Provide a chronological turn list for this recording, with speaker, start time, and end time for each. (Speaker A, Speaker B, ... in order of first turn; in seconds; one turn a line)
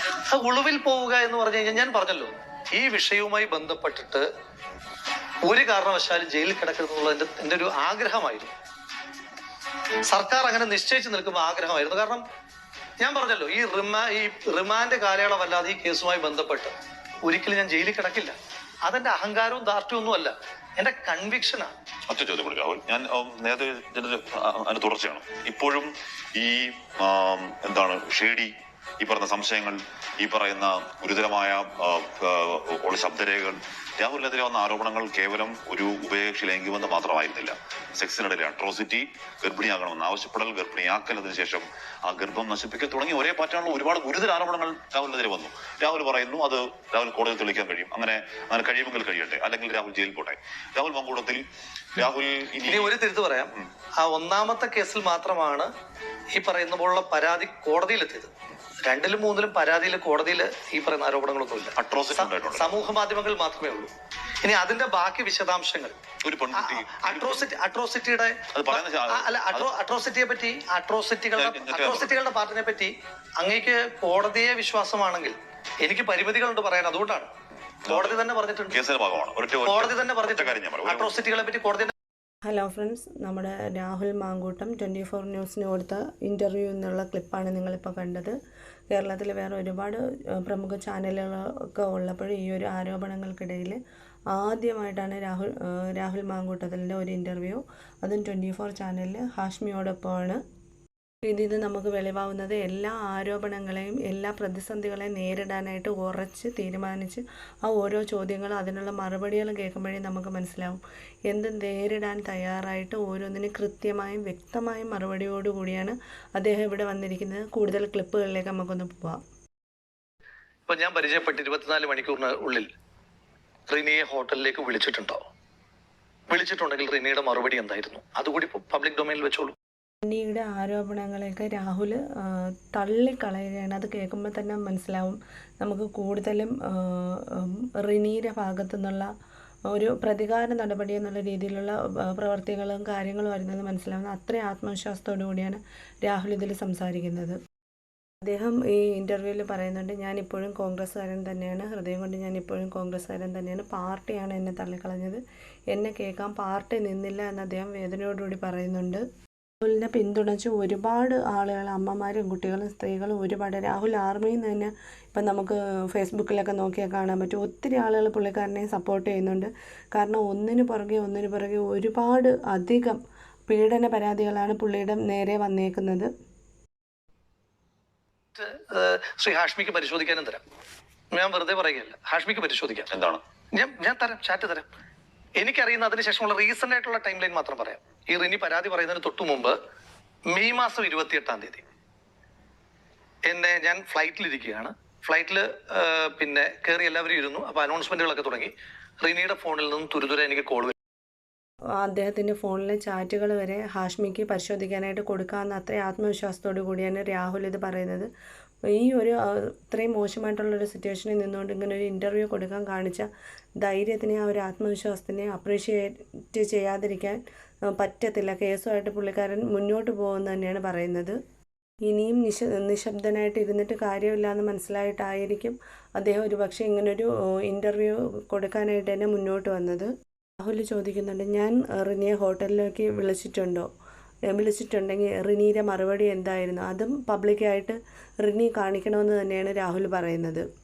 Speaker A: 0.3-4.3
Speaker A: 5.5-8.5
Speaker A: 10.1-12.2
Speaker A: 13.0-21.7
Speaker B: 22.1-51.4
Speaker B: 52.0-53.0
Speaker A: 52.7-55.7
Speaker A: 56.4-58.3
Speaker A: 58.9-63.9
Speaker B: 61.8-62.8
Speaker A: 64.4-66.0
Speaker B: 66.2-67.5
Speaker A: 66.5-77.3
Speaker B: 68.5-69.7
Speaker B: 71.3-72.2
Speaker A: 77.8-78.8
Speaker B: 77.9-78.1
Speaker B: 78.7-81.1
Speaker A: 79.6-81.9
Speaker C: 82.5-88.4
Speaker C: 88.9-100.4
Speaker C: 101.2-119.2
Speaker A: 120.7-122.7
Speaker A: 123.7-125.2
Speaker A: 126.3-129.6
Speaker C: 130.0-139.1
Speaker C: 139.7-147.4
Speaker C: 148.2-159.0
Speaker C: 159.6-176.1
Speaker A: 178.3-180.4
Speaker A: 181.1-182.9
Speaker B: 182.9-183.2
Speaker A: 183.6-184.7
Speaker A: 185.4-189.6
Speaker A: 190.3-191.6
Speaker A: 193.3-200.7
Speaker C: 201.8-208.1
Speaker C: 208.7-213.1
Speaker C: 213.6-221.2
Speaker C: 221.9-229.9
Speaker C: 230.4-233.7
Speaker C: 234.3-240.5